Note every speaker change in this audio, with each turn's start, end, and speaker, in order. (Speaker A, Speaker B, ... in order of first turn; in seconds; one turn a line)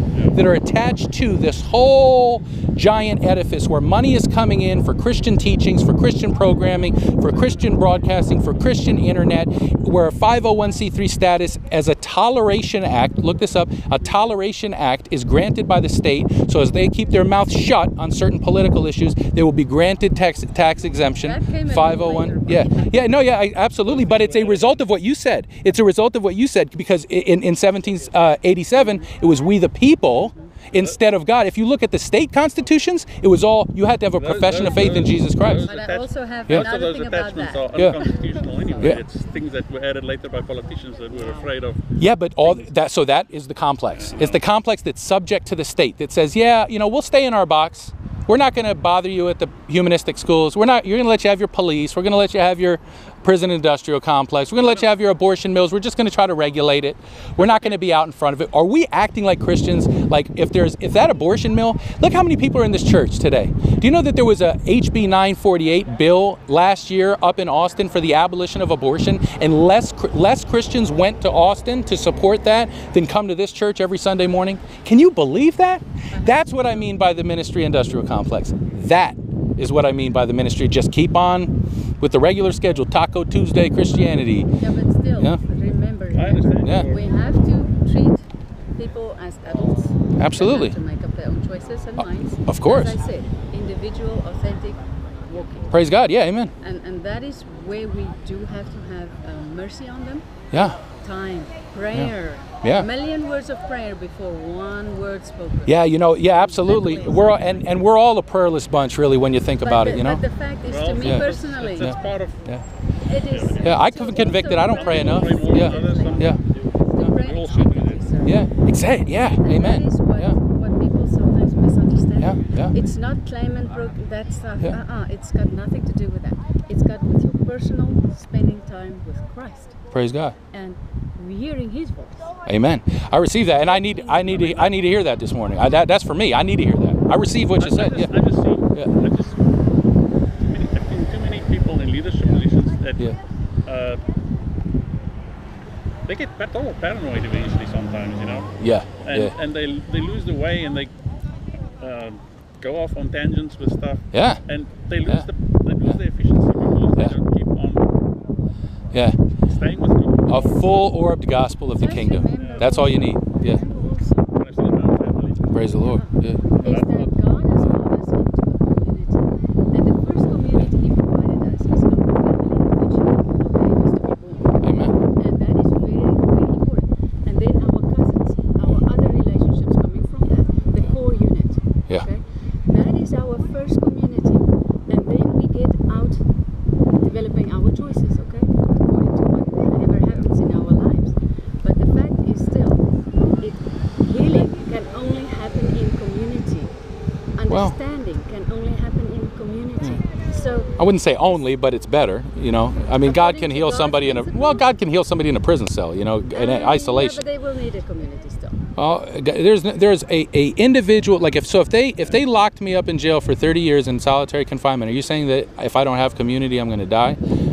Speaker A: 0.3-35.7
Speaker B: 21.2-23.2
Speaker C: 23.9-24.8
Speaker B: 30.2-30.5
Speaker C: 34.1-41.8
Speaker B: 35.6-39.0
Speaker A: 37.7-38.0
Speaker A: 42.0-84.5
Speaker C: 43.9-44.4
Speaker C: 57.4-57.8
Speaker B: 76.1-76.8
Speaker B: 84.6-95.7
Speaker C: 86.1-87.1
Speaker A: 86.6-86.9
Speaker A: 90.2-90.7
Speaker A: 92.0-93.0
Speaker A: 95.7-96.5
Speaker B: 96.6-107.6
Speaker A: 100.5-100.8
Speaker A: 101.9-102.9
Speaker A: 105.7-110.2
Speaker B: 109.6-111.9
Speaker C: 110.7-112.5
Speaker A: 111.0-112.6
Speaker B: 113.0-118.4
Speaker C: 113.2-118.1
Speaker A: 113.6-116.4
Speaker A: 118.2-120.4
Speaker B: 119.3-129.8
Speaker A: 122.2-122.7
Speaker A: 129.9-130.3
Speaker B: 130.5-132.3
Speaker A: 132.4-138.1
Speaker B: 133.4-134.8
Speaker C: 137.6-139.4
Speaker C: 140.4-143.1
Speaker C: 143.6-144.0
Speaker C: 146.0-150.9
Speaker A: 148.6-149.3
Speaker C: 151.8-157.9
Speaker A: 154.1-154.4
Speaker A: 158.9-159.2
Speaker C: 159.4-160.9
Speaker A: 160.3-163.6
Speaker B: 161.8-164.4
Speaker C: 162.3-162.7
Speaker C: 164.3-165.5
Speaker A: 165.5-166.4
Speaker B: 165.7-174.6
Speaker C: 166.6-167.8
Speaker A: 174.6-174.9
Speaker B: 175.1-186.2
Speaker B: 187.0-192.8
Speaker B: 193.4-196.7
Speaker B: 197.4-200.7
Speaker A: 197.5-197.7
Speaker A: 200.8-207.2
Speaker B: 203.0-204.7
Speaker B: 206.3-208.6
Speaker A: 208.8-217.2